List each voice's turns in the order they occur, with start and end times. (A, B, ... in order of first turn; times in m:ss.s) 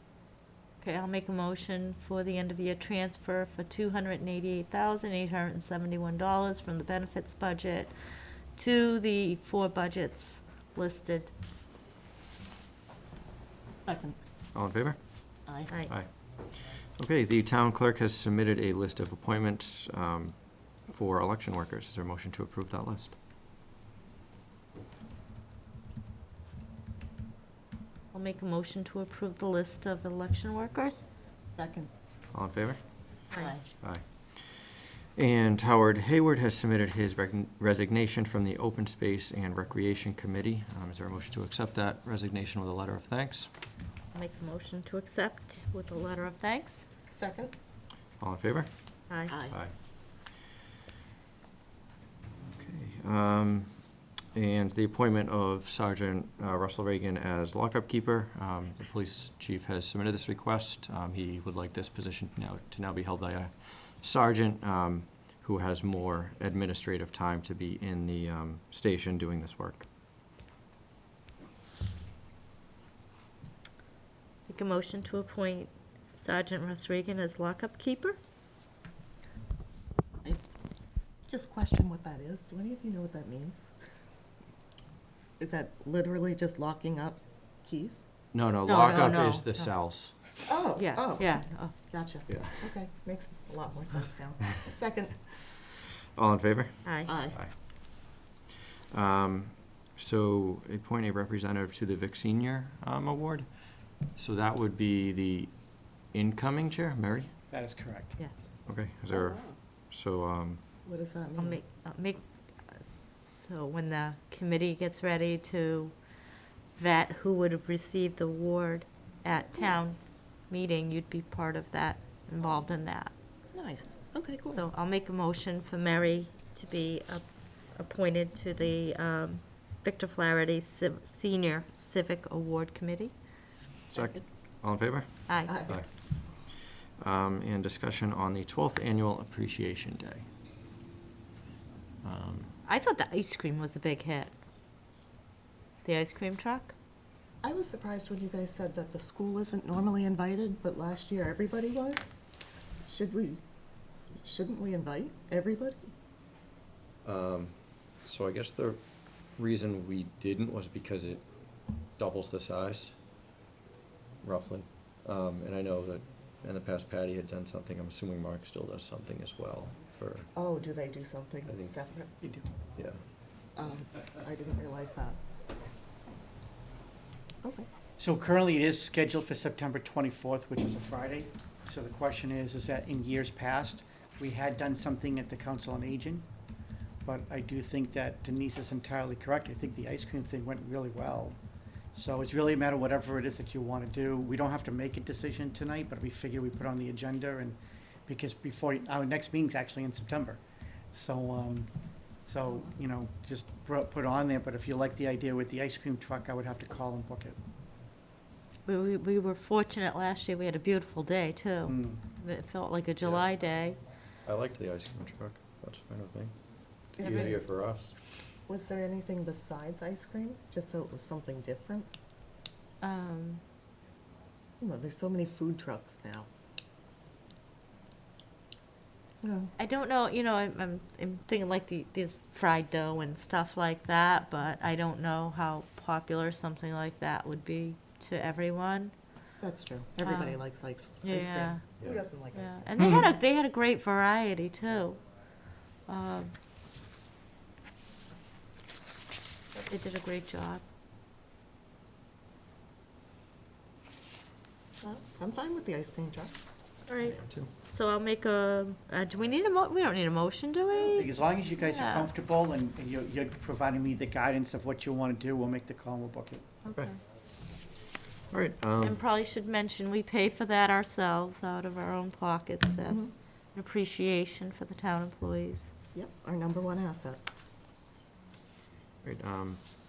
0:00.8-0:07.9 A
0:08.5-0:11.3 A
0:13.8-0:14.2 B
0:14.5-0:15.0 C
0:15.4-0:15.7 B
0:15.8-0:23.2 C
0:28.1-0:31.1 A
0:31.5-0:31.9 B
0:32.3-0:32.8 C
0:33.3-0:33.6 B
0:33.8-0:43.5 C
0:44.1-0:46.8 A
0:47.1-0:47.5 B
0:48.2-0:48.7 C
0:49.1-0:49.3 A
0:49.3-0:49.6 B
0:52.5-0:53.8 C
0:54.3-1:09.9 C
1:14.5-1:18.2 A
1:21.3-1:23.7 B
1:25.4-1:28.0 B
1:28.3-1:30.1 C
1:28.6-1:29.7 A
1:30.4-1:35.2 B
1:30.8-1:31.7 A
1:32.3-1:32.7 C
1:36.2-1:37.5 C
1:36.8-1:37.1 A
1:37.0-1:37.4 B
1:38.9-1:43.5 C
1:44.1-1:45.5 C
1:46.1-1:47.3 C
1:47.5-1:48.2 D
1:48.6-1:50.6 C
1:49.1-1:49.6 B
1:50.8-1:51.6 B
1:51.4-1:55.9 A
1:56.8-2:00.0 A
2:00.5-2:03.1 A
2:03.5-2:04.6 B
2:04.5-2:13.1 A
2:13.9-2:15.9 C
2:15.3-2:15.5 A
2:15.4-2:15.8 B
2:17.0-2:20.3 C
2:22.0-2:22.5 C
2:22.6-2:24.3 A
2:25.8-2:26.7 A
2:27.4-2:32.2 B
2:32.8-2:33.4 B
2:34.2-2:35.8 B
2:37.0-2:38.8 C
2:39.4-2:41.2 C
2:42.0-2:43.0 C
2:44.2-2:50.3 C
2:50.3-2:52.2 B
2:51.4-2:51.8 C
2:52.2-2:52.5 D
2:52.8-2:53.0 C
2:53.6-2:55.2 B
2:58.0-3:06.2 D
3:07.0-3:11.4 D
3:11.9-3:20.4 D
3:20.9-3:21.7 D
3:22.2-3:27.4 D
3:28.6-3:33.8 A
3:31.6-3:32.0 D
3:34.2-3:36.3 C
3:36.9-3:37.9 C
3:37.0-3:37.4 B
3:38.5-3:41.9 B
3:42.8-3:43.4 A
3:44.6-3:46.3 B
3:49.2-3:49.5 B
3:49.6-3:58.9 A
3:59.4-4:02.8 B
4:00.0-4:00.4 A
4:01.0-4:01.6 A
4:02.3-4:05.0 A
4:05.9-4:06.3 A
4:09.6-4:10.6 A
4:14.8-4:16.4 B
4:16.9-4:22.1 A
4:17.1-4:17.5 C
4:20.9-4:26.6 D
4:26.7-4:26.9 C
4:28.3-4:29.0 C
4:28.8-4:35.7 A
4:35.9-4:37.2 B
4:39.0-4:39.6 C